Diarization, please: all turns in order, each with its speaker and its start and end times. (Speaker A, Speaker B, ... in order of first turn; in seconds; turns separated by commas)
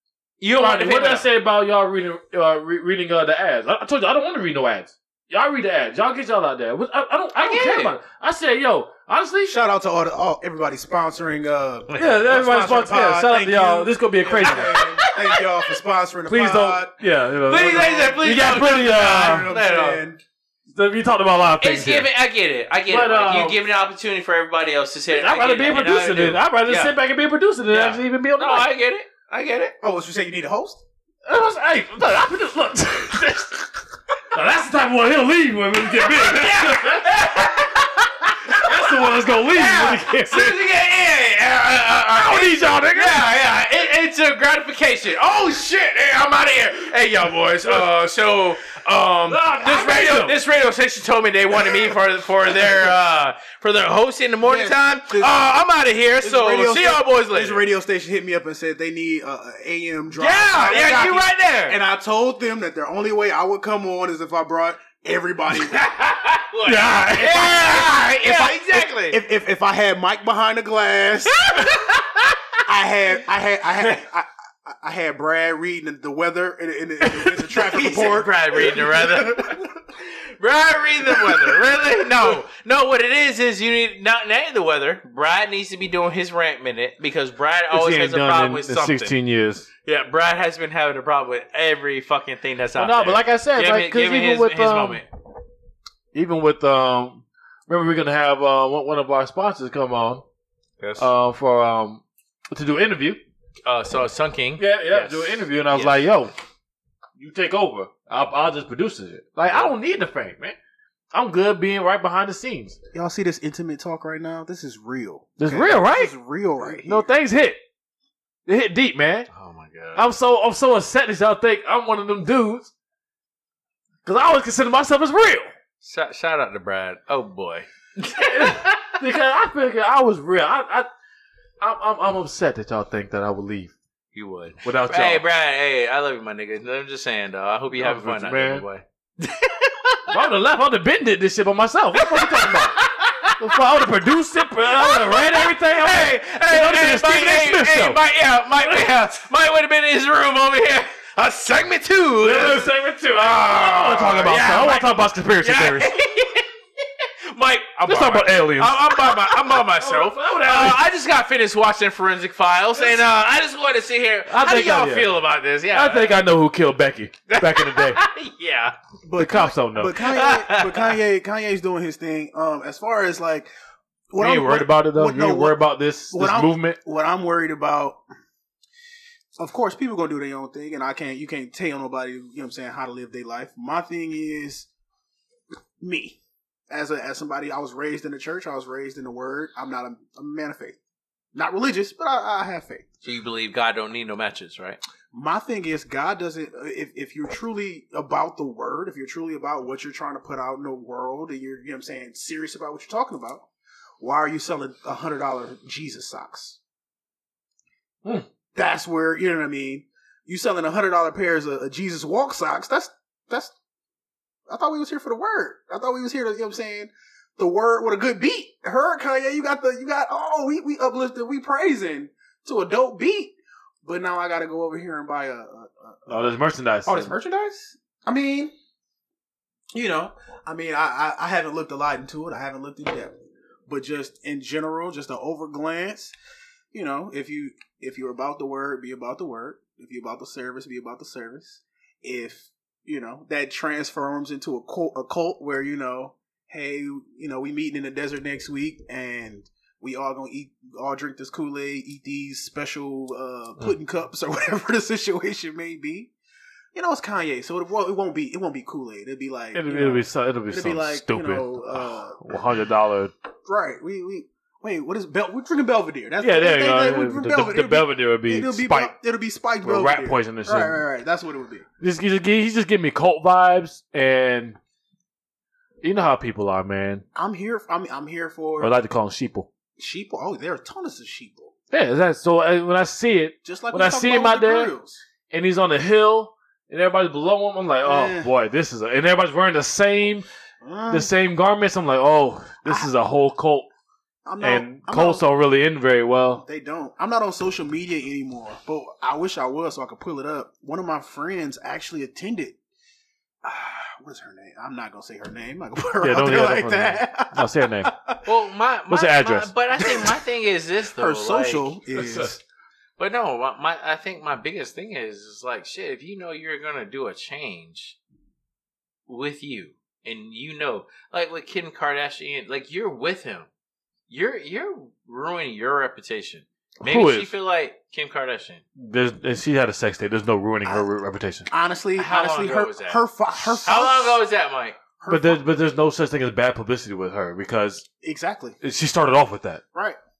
Speaker A: 0.4-1.2, Speaker B: 0.6-9.5, Speaker A: 7.4-7.9, Speaker C: 9.5-16.9, Speaker A: 11.9-12.2, Speaker B: 11.9-14.9, Speaker A: 14.5-15.4, Speaker B: 16.3-19.5, Speaker A: 17.5-20.0, Speaker C: 17.5-20.2, Speaker B: 20.7-22.1, Speaker A: 21.6-26.9, Speaker B: 22.9-23.6, Speaker B: 25.1-28.7, Speaker A: 27.7-29.7, Speaker C: 29.8-30.8, Speaker B: 31.2-37.7, Speaker A: 35.9-57.6, Speaker B: 38.4-40.5, Speaker B: 42.1-43.2, Speaker B: 49.3-50.4, Speaker C: 54.4-55.4, Speaker C: 56.2-65.9, Speaker A: 60.1-61.8, Speaker A: 65.7-69.2, Speaker B: 66.6-67.7, Speaker C: 67.3-71.7, Speaker A: 71.4-72.6, Speaker C: 72.6-79.7, Speaker A: 77.4-89.1, Speaker B: 87.7-89.7, Speaker A: 89.8-95.0, Speaker B: 92.8-95.0, Speaker B: 96.1-100.2, Speaker A: 100.8-101.1, Speaker B: 101.0-103.2, Speaker A: 103.6-106.0, Speaker B: 104.6-106.3, Speaker B: 107.2-110.5, Speaker A: 109.5-109.7, Speaker B: 111.1-112.8, Speaker C: 112.9-117.1, Speaker B: 115.4-116.1, Speaker B: 116.7-117.6, Speaker B: 118.5-119.3, Speaker A: 119.3-120.0, Speaker B: 120.0-122.7, Speaker B: 124.0-125.5, Speaker A: 125.8-128.7, Speaker B: 128.2-130.9, Speaker B: 131.6-133.7, Speaker A: 134.1-140.1, Speaker B: 134.6-135.2, Speaker B: 137.8-138.6, Speaker B: 140.1-148.0, Speaker A: 142.0-143.3, Speaker A: 144.7-166.1, Speaker B: 148.6-148.9, Speaker B: 152.2-155.9, Speaker B: 157.8-160.8, Speaker B: 164.3-165.1, Speaker B: 165.7-168.0, Speaker A: 167.3-168.8, Speaker C: 169.0-173.5, Speaker B: 169.2-170.0, Speaker A: 170.1-170.9, Speaker C: 174.1-178.0, Speaker B: 174.2-176.8, Speaker C: 179.4-184.7, Speaker C: 185.8-186.2, Speaker C: 186.7-190.8, Speaker C: 191.3-192.9, Speaker A: 193.0-194.8, Speaker C: 195.1-203.4, Speaker C: 204.0-206.6, Speaker C: 208.5-213.5, Speaker C: 214.5-226.3, Speaker B: 226.1-227.1, Speaker C: 226.8-228.5, Speaker C: 229.7-233.1, Speaker C: 233.7-236.1, Speaker C: 236.7-256.1, Speaker C: 256.7-262.4, Speaker B: 259.5-263.1, Speaker C: 263.4-271.6, Speaker B: 266.2-268.9, Speaker B: 269.6-270.8, Speaker B: 271.8-274.6, Speaker B: 275.8-277.0, Speaker C: 277.1-278.7, Speaker B: 278.6-279.5, Speaker C: 279.8-281.5, Speaker B: 281.7-284.7, Speaker C: 283.4-285.0, Speaker B: 285.3-290.2, Speaker C: 287.8-288.3, Speaker C: 290.6-291.1, Speaker B: 290.9-293.7, Speaker C: 294.2-295.2, Speaker B: 294.4-296.4, Speaker C: 296.4-302.6, Speaker C: 303.4-308.2, Speaker B: 306.0-307.9, Speaker A: 308.2-311.7, Speaker B: 308.9-309.5, Speaker C: 309.8-310.2, Speaker C: 310.9-312.4, Speaker B: 311.9-312.4, Speaker A: 313.0-318.0, Speaker A: 319.1-323.5, Speaker A: 324.1-328.6, Speaker B: 326.8-327.3, Speaker B: 328.8-331.5, Speaker C: 331.5-334.2, Speaker A: 331.9-334.8, Speaker C: 335.0-335.4, Speaker B: 335.1-337.9, Speaker C: 338.0-338.6, Speaker B: 338.6-339.6, Speaker C: 339.7-340.0